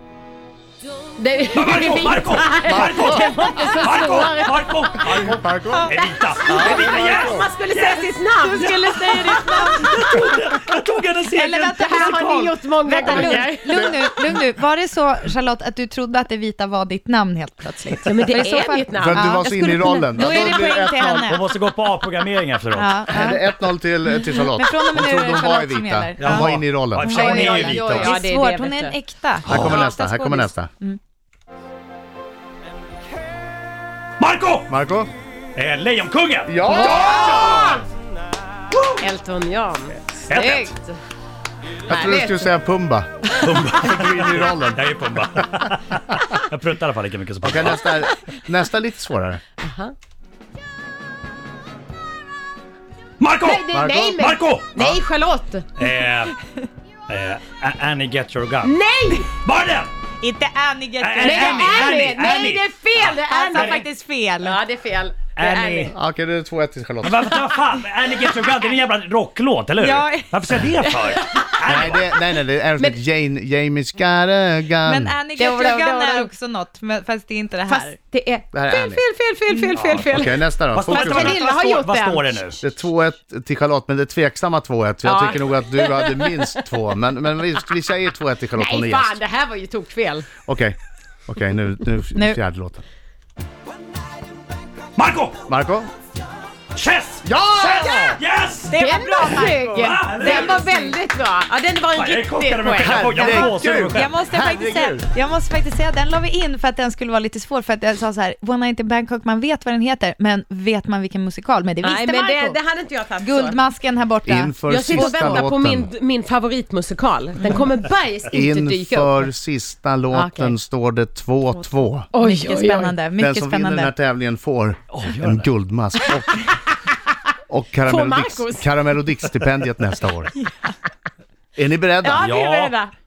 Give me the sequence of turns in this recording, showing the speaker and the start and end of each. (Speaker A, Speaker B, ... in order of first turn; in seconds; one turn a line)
Speaker A: 0.9-5.2
Speaker B: 1.5-12.4
Speaker C: 2.6-3.7
Speaker C: 5.1-7.5
Speaker A: 6.5-10.1
Speaker D: 9.4-9.9
Speaker D: 11.3-19.5
Speaker A: 11.8-14.2
Speaker C: 13.0-13.9
Speaker A: 18.0-20.8
Speaker C: 19.0-21.4
Speaker D: 20.1-21.4
Speaker B: 21.2-23.1
Speaker D: 22.7-31.0
Speaker C: 23.1-27.4
Speaker B: 26.2-28.2
Speaker A: 27.4-29.0
Speaker B: 29.4-29.8
Speaker C: 29.5-30.7
Speaker A: 29.6-29.8
Speaker B: 34.2-34.7
Speaker C: 34.7-35.1
Speaker B: 35.5-37.7
Speaker C: 36.5-37.8
Speaker D: 36.9-37.4
Speaker A: 37.5-37.7
Speaker A: 39.0-41.0
Speaker B: 40.3-40.7
Speaker C: 41.9-44.9
Speaker A: 41.9-42.5
Speaker B: 43.4-48.0
Speaker C: 47.4-49.4
Speaker A: 49.6-49.9
Speaker B: 53.2-54.9
Speaker A: 53.4-55.7
Speaker C: 53.7-54.2
Speaker B: 55.8-56.4
Speaker B: 57.1-58.8
Speaker A: 58.6-59.3
Speaker B: 59.4-59.9
Speaker D: 60.2-61.9
Speaker B: 61.0-63.8
Speaker A: 61.2-66.0
Speaker D: 63.1-64.6
Speaker B: 65.4-65.9
Speaker C: 65.9-67.4
Speaker B: 67.0-72.1
Speaker D: 69.8-70.4
Speaker A: 71.1-71.5
Speaker C: 71.6-75.2
Speaker D: 74.8-78.0
Speaker A: 75.3-76.3
Speaker A: 77.7-82.7
Speaker C: 78.5-79.0
Speaker D: 79.5-79.8
Speaker B: 79.7-82.6
Speaker C: 80.0-81.4
Speaker C: 82.6-89.2
Speaker A: 85.0-86.5
Speaker A: 88.5-90.3
Speaker C: 90.5-92.8
Speaker D: 92.2-92.4
Speaker B: 95.0-95.4
Speaker C: 95.5-95.9
Speaker B: 96.7-98.8
Speaker C: 97.2-98.2
Speaker A: 98.7-103.0
Speaker D: 98.8-101.0
Speaker B: 99.5-100.7
Speaker B: 101.9-104.2
Speaker C: 102.8-105.1
Speaker D: 103.1-112.6
Speaker A: 111.8-113.6
Speaker D: 113.2-115.5
Speaker C: 114.2-115.9
Speaker A: 114.7-119.3
Speaker C: 118.3-122.1
Speaker A: 120.1-120.6
Speaker A: 122.1-123.0
Speaker D: 122.1-123.9
Speaker C: 123.2-126.5
Speaker B: 124.9-125.5
Speaker A: 126.0-126.5
Speaker C: 127.5-130.3
Speaker A: 127.8-128.7
Speaker C: 131.6-132.3
Speaker A: 132.0-132.9
Speaker B: 132.2-132.8